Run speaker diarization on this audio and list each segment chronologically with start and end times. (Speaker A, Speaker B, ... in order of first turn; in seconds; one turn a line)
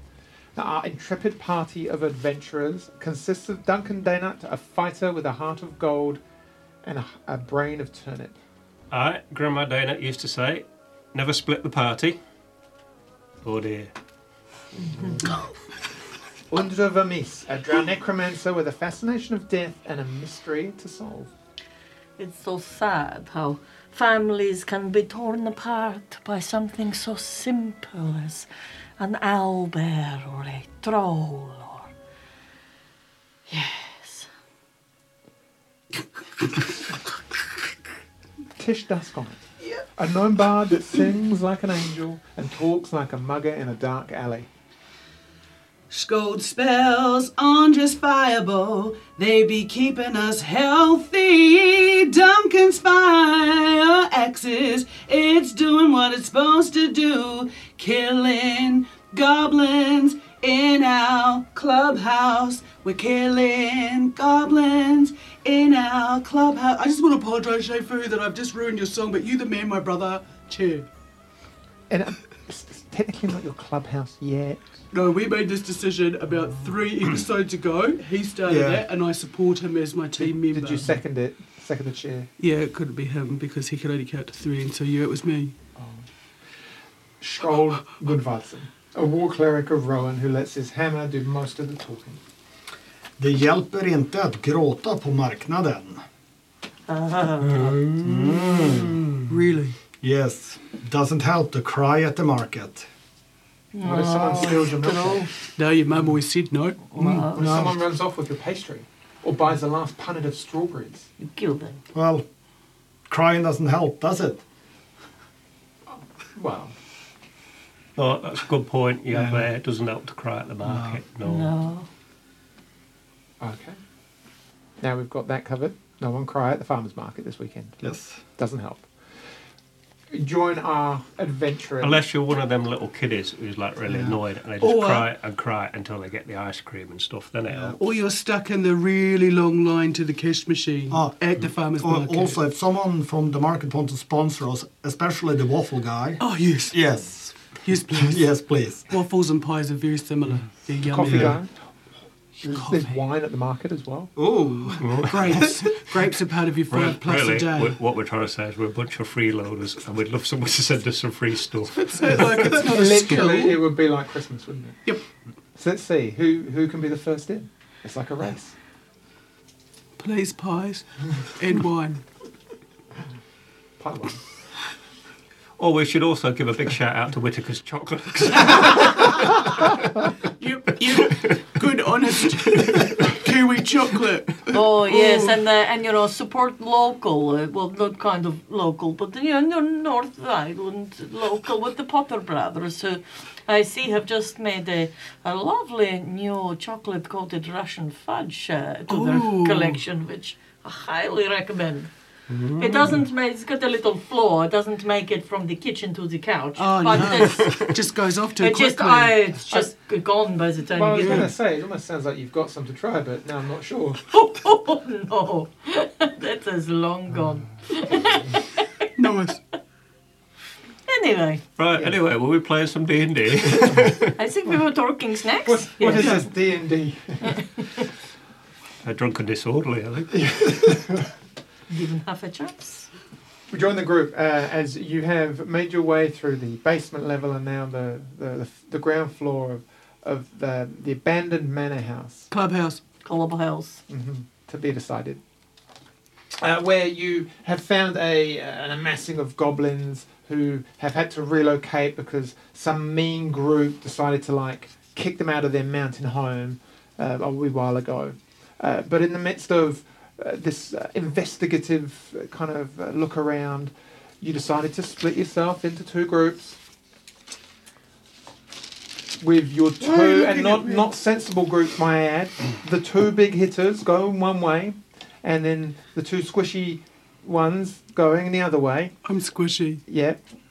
Speaker A: 0.6-6.2
Speaker A: 6.8-8.4
Speaker B: 8.9-12.2
Speaker B: 13.4-13.9
Speaker A: 16.5-21.3
Speaker C: 22.2-28.5
Speaker C: 29.0-31.9
Speaker C: 33.5-34.3
Speaker A: 38.6-39.4
Speaker A: 40.0-44.5
Speaker D: 45.9-70.9
Speaker A: 71.9-74.7
Speaker D: 74.9-80.9
Speaker E: 78.5-78.8
Speaker A: 80.2-82.3
Speaker D: 82.4-85.5
Speaker A: 85.8-86.0
Speaker A: 87.2-92.2
Speaker E: 93.2-96.0
Speaker C: 96.9-97.9
Speaker E: 97.9-99.1
Speaker D: 99.3-99.8
Speaker E: 100.0-102.9
Speaker C: 103.7-105.3
Speaker A: 103.8-105.3
Speaker D: 105.6-107.3
Speaker C: 106.9-107.5
Speaker E: 107.3-107.8
Speaker A: 107.4-111.1
Speaker C: 111.2-111.8
Speaker E: 111.9-112.2
Speaker E: 113.1-114.4
Speaker A: 116.4-116.7
Speaker B: 118.0-121.5
Speaker E: 119.1-119.5
Speaker E: 120.6-121.0
Speaker C: 121.2-121.9
Speaker A: 123.4-123.8
Speaker A: 124.8-127.8
Speaker E: 127.8-128.2
Speaker A: 128.4-128.9
Speaker A: 130.1-132.0
Speaker B: 131.8-137.8
Speaker E: 133.9-134.2
Speaker D: 134.6-135.1
Speaker E: 137.5-137.8
Speaker D: 137.8-142.4
Speaker E: 140.9-147.4
Speaker D: 146.2-146.9
Speaker D: 147.6-148.3
Speaker E: 147.9-148.9
Speaker D: 148.9-151.4
Speaker A: 150.9-151.5
Speaker E: 151.1-151.4
Speaker D: 152.4-152.9
Speaker A: 152.4-154.1
Speaker E: 154.2-155.4
Speaker D: 154.6-157.8
Speaker B: 154.8-155.2
Speaker B: 156.7-162.5
Speaker D: 161.9-163.6
Speaker A: 162.5-164.8
Speaker A: 165.6-168.5
Speaker D: 170.0-172.0
Speaker A: 173.8-174.2
Speaker B: 175.6-179.5
Speaker D: 180.4-185.4
Speaker B: 181.1-181.4
Speaker C: 184.5-201.9
Speaker D: 198.9-199.8
Speaker B: 202.3-202.9
Speaker C: 202.6-207.7
Speaker D: 206.6-209.2
Speaker C: 208.4-211.3
Speaker A: 210.7-214.0
Speaker D: 211.0-211.3
Speaker C: 214.1-218.9
Speaker D: 219.0-219.4
Speaker C: 220.9-221.4
Speaker B: 221.6-224.1
Speaker C: 224.2-226.2
Speaker A: 225.4-227.4
Speaker B: 228.8-230.3
Speaker A: 230.2-231.0
Speaker C: 231.7-232.9
Speaker A: 233.5-242.3
Speaker D: 242.3-242.8
Speaker C: 243.0-243.8
Speaker A: 243.9-245.2
Speaker A: 246.4-266.6
Speaker A: 269.2-278.9
Speaker D: 269.8-270.9
Speaker D: 279.0-279.8
Speaker A: 279.9-280.2